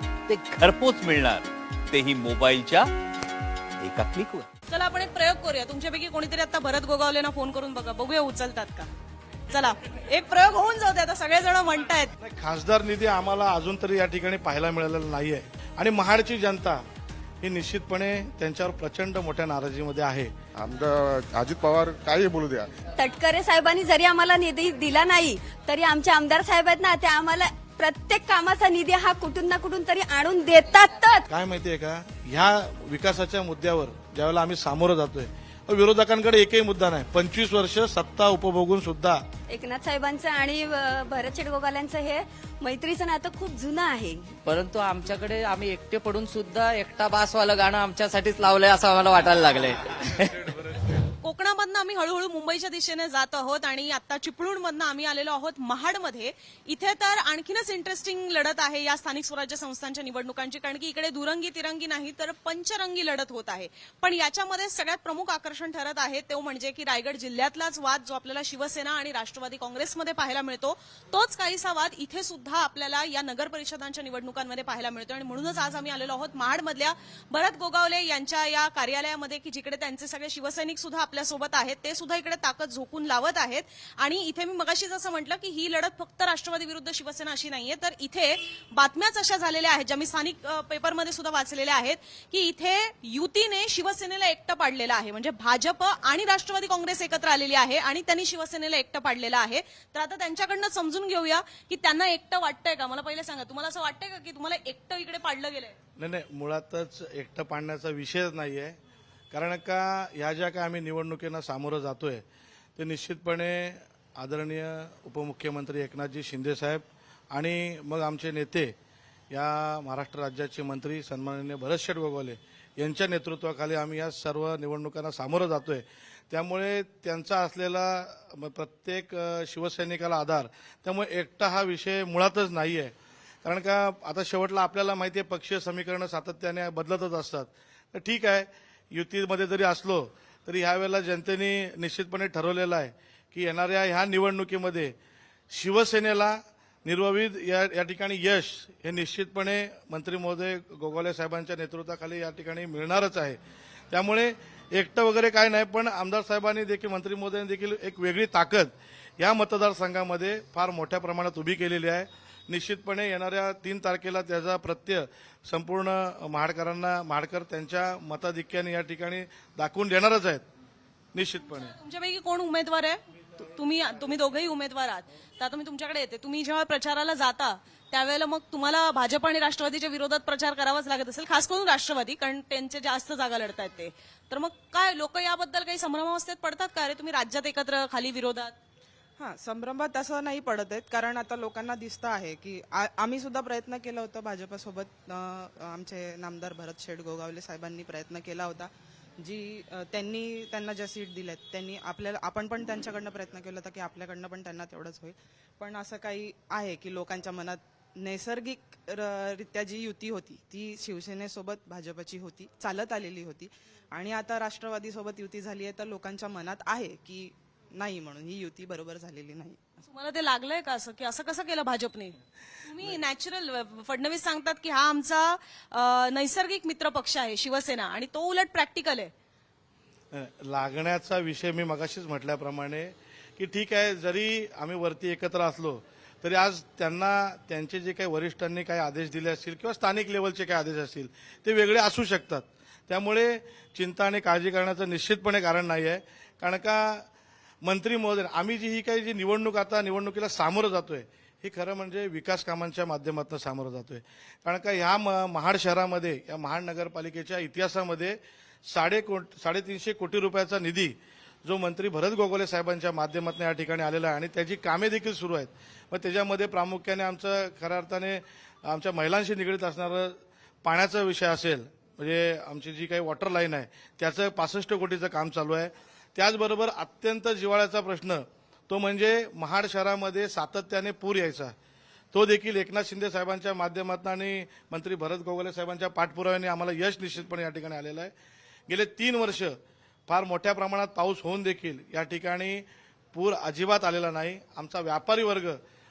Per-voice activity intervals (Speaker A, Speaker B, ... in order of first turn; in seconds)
Speaker A: 0.5-2.8, 3.9-4.2
Speaker B: 4.7-8.9, 9.5-12.1, 51.2-105.7, 171.5-188.5, 219.9-229.1
Speaker C: 12.2-16.8, 17.4-20.3, 31.3-39.2, 106.0-108.8, 109.3-112.2, 112.8-118.7, 119.3-132.9, 133.4-144.9, 145.5-153.4, 153.9-170.4, 171.1-171.7, 230.1-247.1, 247.6-258.2, 258.7-281.5, 282.1-288.1, 288.7-289.6, 290.1-295.6
Speaker D: 20.6-22.7
Speaker E: 23.0-31.3, 39.5-44.3
Speaker F: 44.4-50.5
Speaker G: 189.2-219.6